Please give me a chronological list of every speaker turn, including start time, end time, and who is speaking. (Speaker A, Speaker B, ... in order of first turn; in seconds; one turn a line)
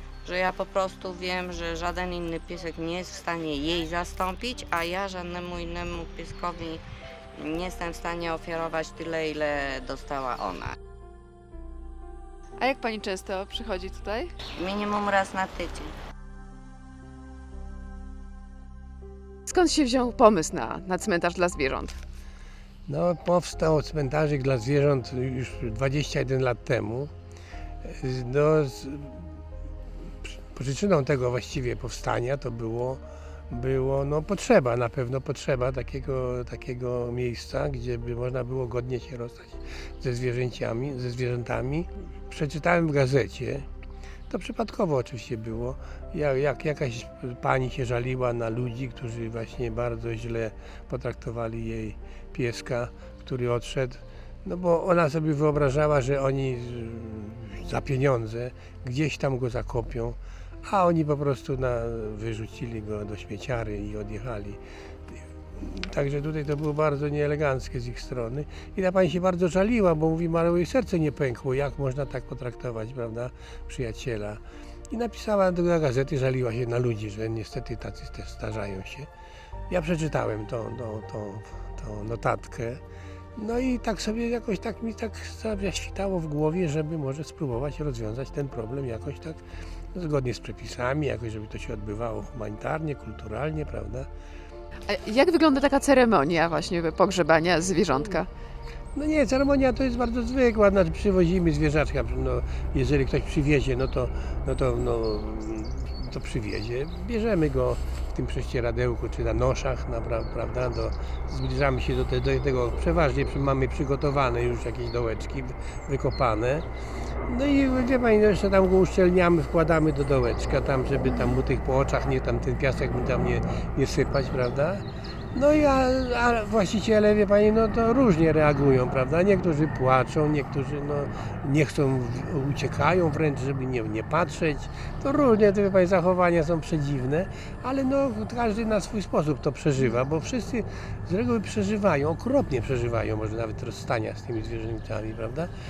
Speaker A: 0.2-6.8
Speaker A: 7.4-10.8
Speaker B: 12.6-14.3
Speaker A: 14.6-15.9
Speaker B: 19.5-22.0
Speaker C: 22.9-27.1
Speaker C: 27.8-29.3
Speaker C: 30.4-43.7
Speaker C: 44.3-64.6
Speaker C: 65.6-79.1
Speaker C: 79.7-82.8
Speaker C: 83.4-89.4
Speaker C: 89.9-94.1
Speaker B: 94.9-98.3
Speaker C: 99.0-116.7
Speaker C: 117.3-145.5